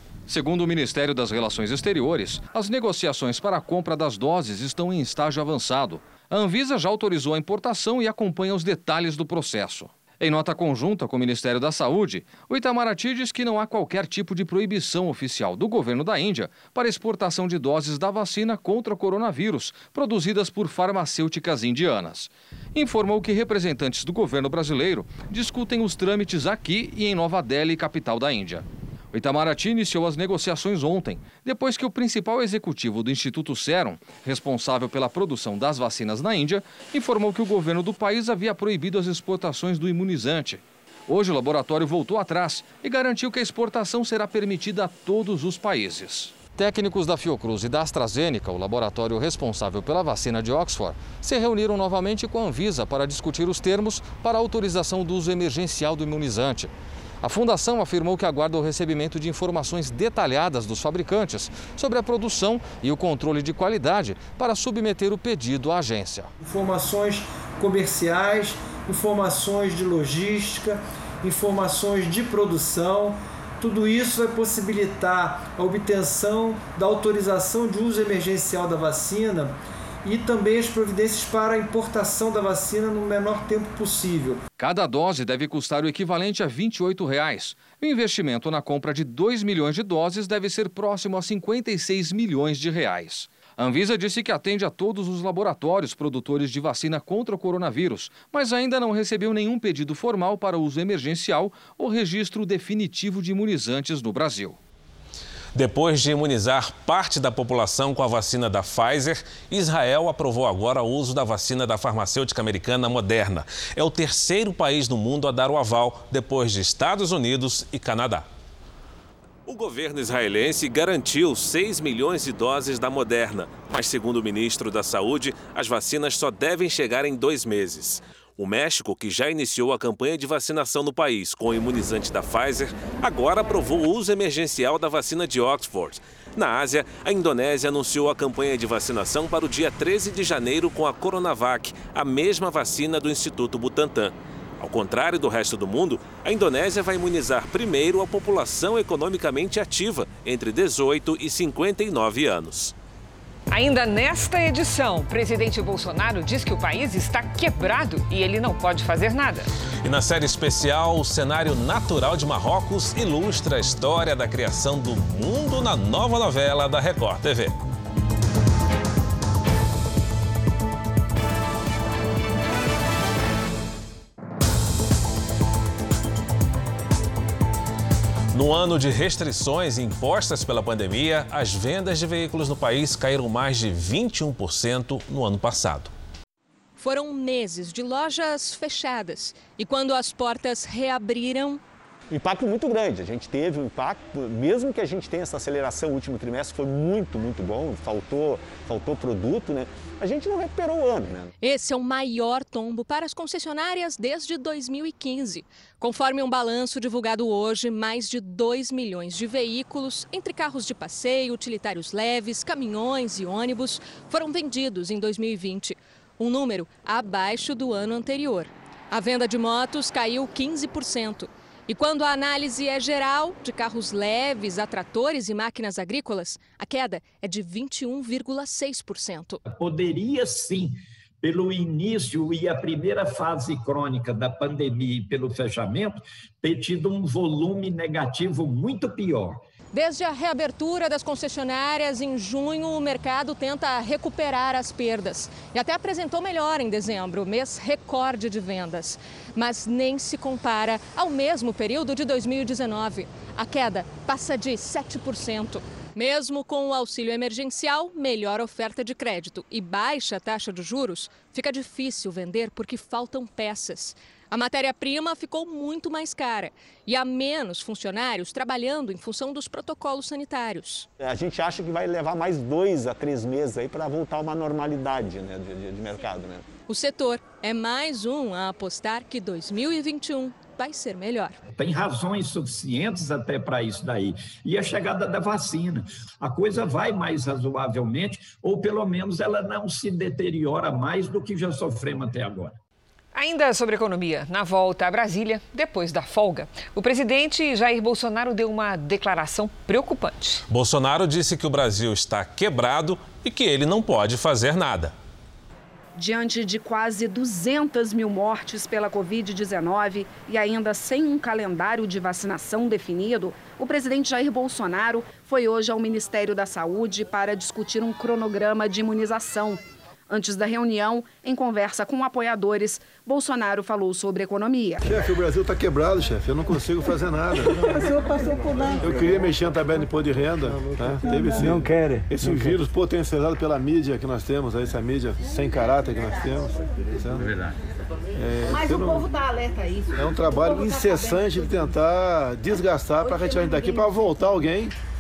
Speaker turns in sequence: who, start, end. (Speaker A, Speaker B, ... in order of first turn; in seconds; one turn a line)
Speaker A: 0.3-66.3
Speaker B: 66.4-84.4
Speaker A: 84.6-104.6
Speaker C: 105.5-118.3
Speaker C: 119.5-152.7
Speaker D: 153.5-159.5
Speaker C: 159.8-167.6
Speaker C: 178.3-185.9
Speaker E: 186.8-191.6
Speaker F: 192.1-201.3
Speaker E: 201.4-229.4
Speaker G: 229.5-239.4
Speaker E: 239.7-270.9
Speaker F: 271.0-276.4
Speaker E: 276.7-281.4
Speaker G: 281.5-292.6
Speaker D: 293.1-300.4
Speaker C: 300.5-304.9
Speaker H: 305.9-324.8
Speaker I: 324.8-327.9
Speaker I: 328.7-337.2
Speaker B: 331.1-332.6
Speaker I: 338.2-339.1
Speaker I: 339.9-344.7